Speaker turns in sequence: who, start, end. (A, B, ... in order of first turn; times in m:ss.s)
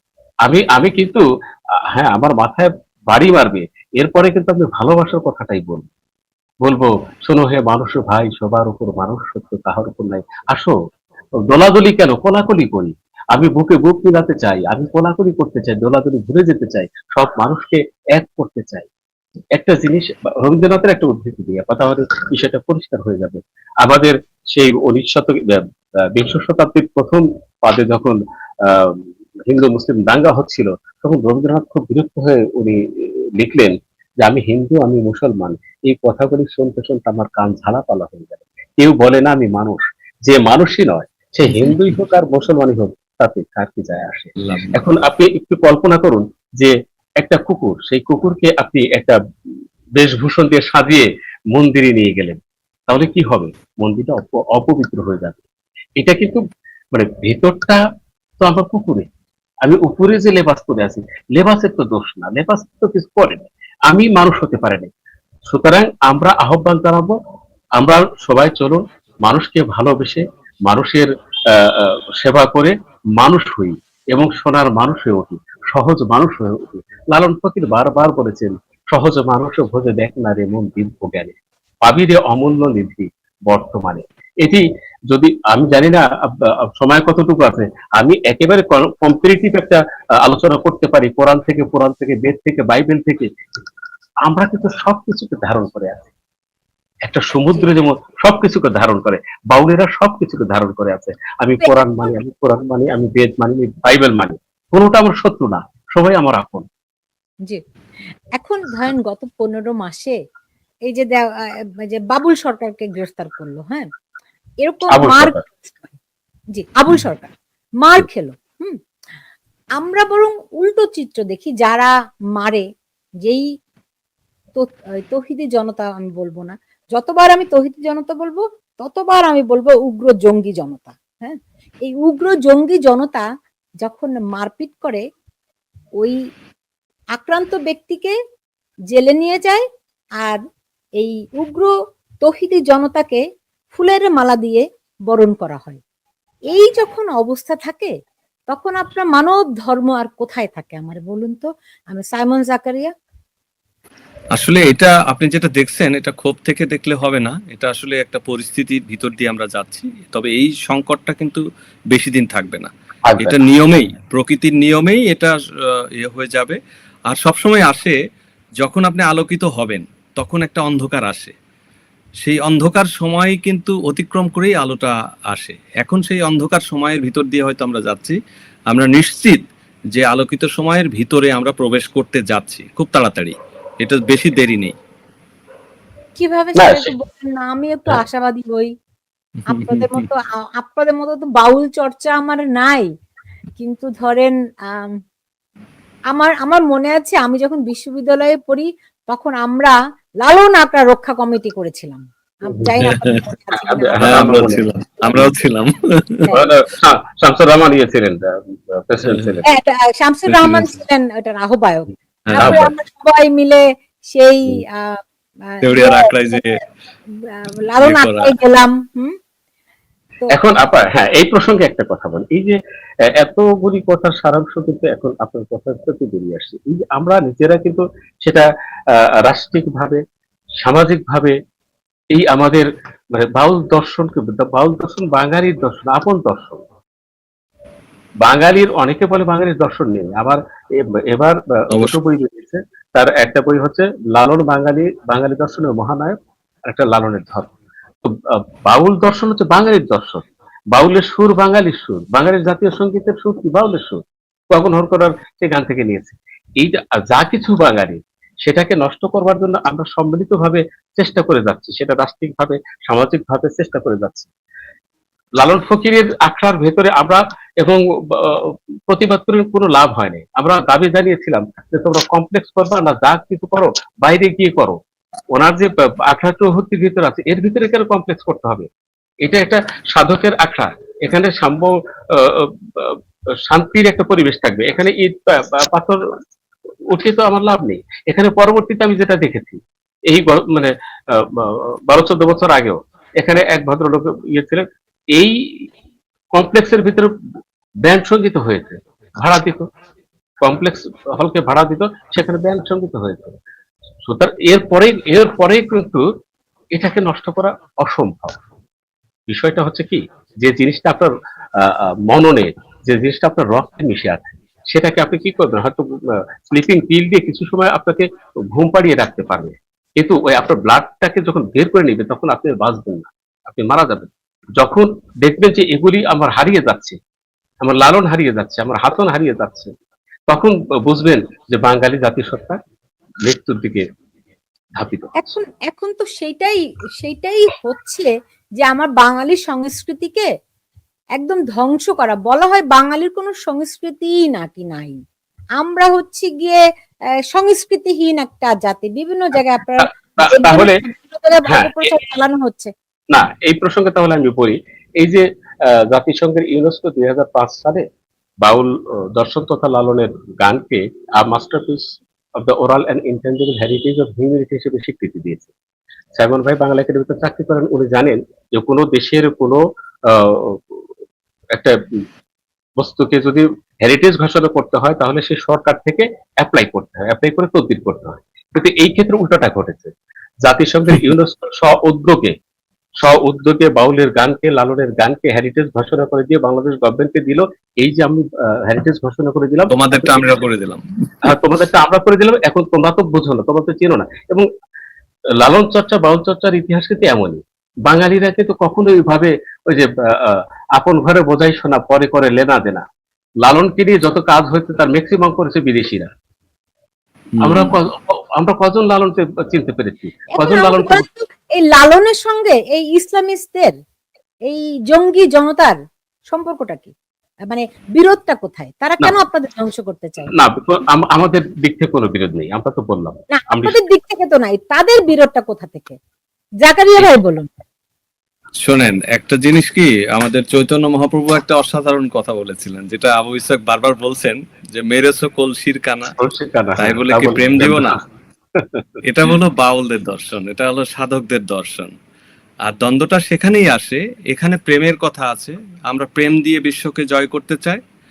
0:00.5-0:01.2 A
0:01.9-0:05.9 A
0:06.6-0:10.7 A
0:11.4-0:18.9 A
0:19.6-0:25.6 A
0:26.1-0:49.2 A
0:41.5-0:41.9 B
0:44.4-0:44.8 B
0:50.0-0:55.4 A
0:56.0-0:56.4 A
0:56.9-0:57.8 A
0:58.4-0:59.1 A
0:59.6-1:04.9 A
1:05.5-1:07.1 A
1:07.8-1:33.3 A
1:34.2-1:36.1 A
1:37.1-1:46.6 A
1:48.4-1:50.2 C
1:50.9-1:51.2 C
1:51.8-1:53.9 C
1:54.6-1:56.0 C
1:54.9-1:55.4 A
1:56.6-1:57.3 C
1:57.8-1:58.8 C
1:59.8-2:02.6 C
2:04.6-2:13.2 C
2:13.8-2:15.0 C
2:17.2-2:18.1 C
2:18.9-2:19.6 C
2:21.0-2:21.7 C
2:22.2-2:23.2 C
2:23.7-2:25.8 C
2:26.5-2:27.9 C
2:28.5-2:32.9 C
2:34.3-2:46.6 B
2:43.1-2:43.4 A
2:47.1-2:48.0 B
2:48.6-2:51.3 B
2:52.2-2:58.2 B
2:58.7-2:59.4 B
2:59.9-3:04.7 B
3:06.2-3:08.7 C
3:06.6-3:06.9 A
3:09.5-3:10.0 B
3:09.5-3:12.9 C
3:13.6-3:14.9 C
3:16.1-3:24.1 C
3:23.5-3:24.6 A
3:24.0-3:26.3 B
3:26.3-3:29.4 A
3:29.5-3:35.0 C
3:30.3-3:30.7 B
3:32.3-3:32.7 B
3:35.5-3:36.6 C
3:35.6-3:36.6 B
3:37.3-3:39.1 C
3:37.8-3:38.3 B
3:40.3-3:42.6 A
3:43.2-3:50.0 A
3:50.6-3:51.4 A
3:52.1-3:56.6 A
3:58.2-4:06.2 A
4:01.7-4:02.0 B
4:06.7-4:07.5 A
4:08.0-4:10.2 A
4:10.7-4:14.0 A
4:14.5-4:24.3 A
4:25.4-4:34.8 A
4:35.3-4:38.7 A
4:39.2-4:46.0 A
4:46.9-4:55.6 A
4:56.3-4:57.1 A
4:57.8-4:59.6 A
5:00.4-5:03.4 A
5:04.0-5:06.0 A
5:06.7-5:08.4 A
5:09.3-5:27.0 A
5:27.6-5:29.7 A
5:30.3-5:32.6 A
5:33.2-5:33.8 A
5:34.8-5:35.3 A
5:35.2-5:38.1 C
5:38.6-5:40.3 C
5:41.2-5:45.0 C
5:45.6-5:46.6 C
5:47.3-5:52.7 C
5:49.8-5:50.8 A
5:51.5-5:51.7 A
5:53.1-5:57.8 A
5:58.4-6:01.9 A
6:02.4-6:05.5 A
6:06.1-6:10.8 A
6:12.8-6:19.9 A
6:20.4-6:22.3 A
6:23.0-6:30.3 A
6:29.7-6:31.3 B
6:31.2-6:34.5 A
6:35.4-6:42.8 A
6:43.4-6:46.1 A
6:47.3-6:47.7 B
6:47.4-6:51.0 A
6:50.3-6:53.7 C
6:54.5-6:55.8 C
6:56.3-6:56.9 C
6:57.5-7:00.3 C
7:00.3-7:03.8 A
7:03.3-7:06.0 C
7:06.6-7:07.5 C
7:08.6-7:16.1 B
7:16.2-7:18.0 A
7:16.8-7:18.0 B
7:18.6-7:18.8 A
7:19.0-7:21.9 B
7:22.6-7:27.8 B